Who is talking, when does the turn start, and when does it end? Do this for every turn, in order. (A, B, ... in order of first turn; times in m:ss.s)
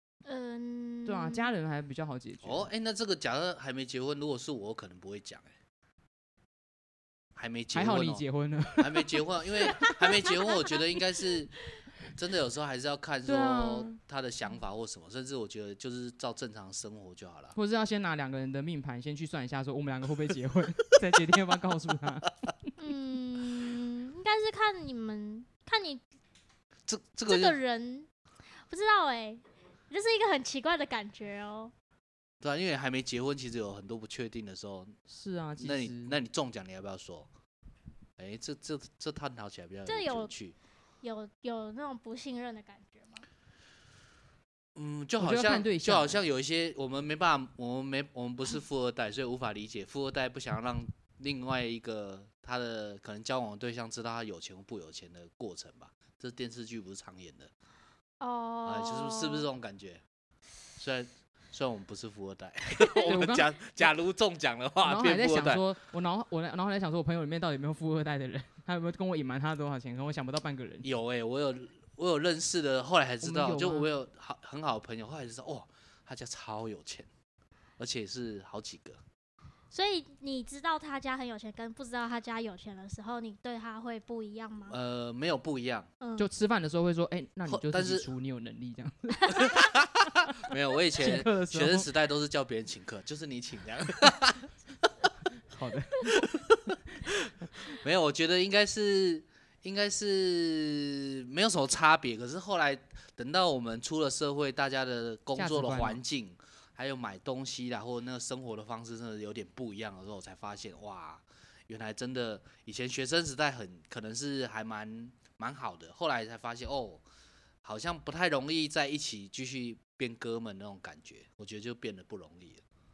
0:00.2-0:01.5 A
0:01.0-0:02.7 B
0:02.4-0:05.5 C
0:07.4-0:08.2 C
0:07.7-0:09.2 B
0:08.8-0:11.5 C
0:12.2-0:17.5 C
0:13.2-0:14.0 B
0:17.5-0:22.7 B
0:22.8-0:26.0 A
0:26.9-0:27.6 C
0:27.3-0:28.1 A
0:28.7-0:31.7 A
0:32.4-0:35.0 C
0:35.1-0:36.2 B
0:35.6-0:37.3 C
0:38.2-0:40.5 C
0:39.8-0:40.3 A
0:41.0-0:43.2 A
0:44.7-0:57.5 C
0:45.2-0:46.2 B
0:58.2-0:59.5 A
0:58.6-1:00.0 C
1:00.8-1:05.6 C
1:02.8-1:03.1 A
1:03.0-1:03.5 B
1:04.8-1:10.8 B
1:10.8-1:17.1 C
1:13.2-1:13.9 B
1:17.8-1:19.0 C
1:19.7-1:24.8 A
1:24.7-1:25.9 C
1:26.0-1:26.3 A
1:26.2-1:29.7 B
1:27.5-1:28.1 C
1:29.3-1:35.0 C
1:31.0-1:31.9 B
1:35.5-1:36.3 B
1:36.1-1:57.0 C
1:45.4-1:46.0 B
1:57.6-2:02.6 C